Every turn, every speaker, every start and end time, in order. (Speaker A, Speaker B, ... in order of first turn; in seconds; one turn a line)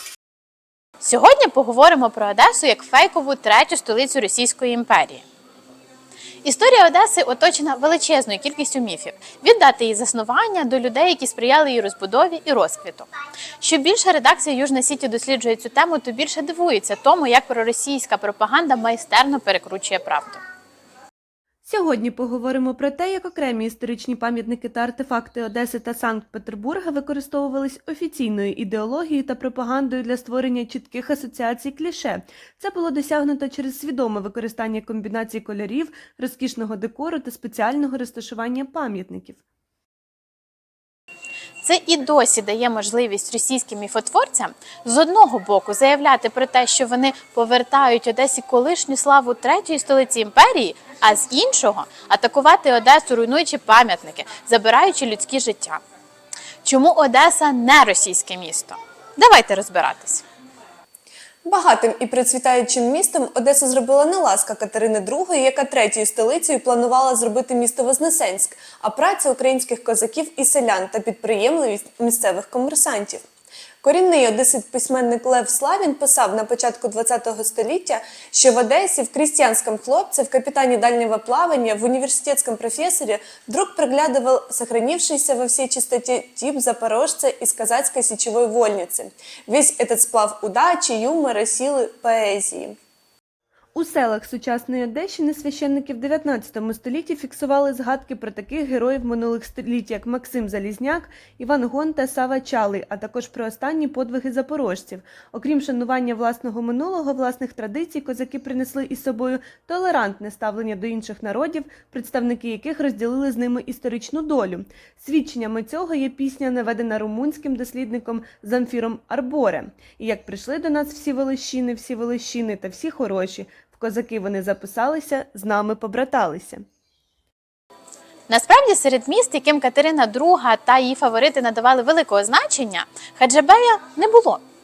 Speaker A: 1.0-5.2
Speaker A: 6.4-13.1
Speaker A: 13.6-20.4
Speaker B: 21.6-39.4
Speaker A: 41.6-55.8
Speaker A: 56.6-60.2
Speaker C: 61.4-73.2
Speaker C: 73.8-92.8
Speaker B: 93.7-126.6
Speaker A: 128.3-134.4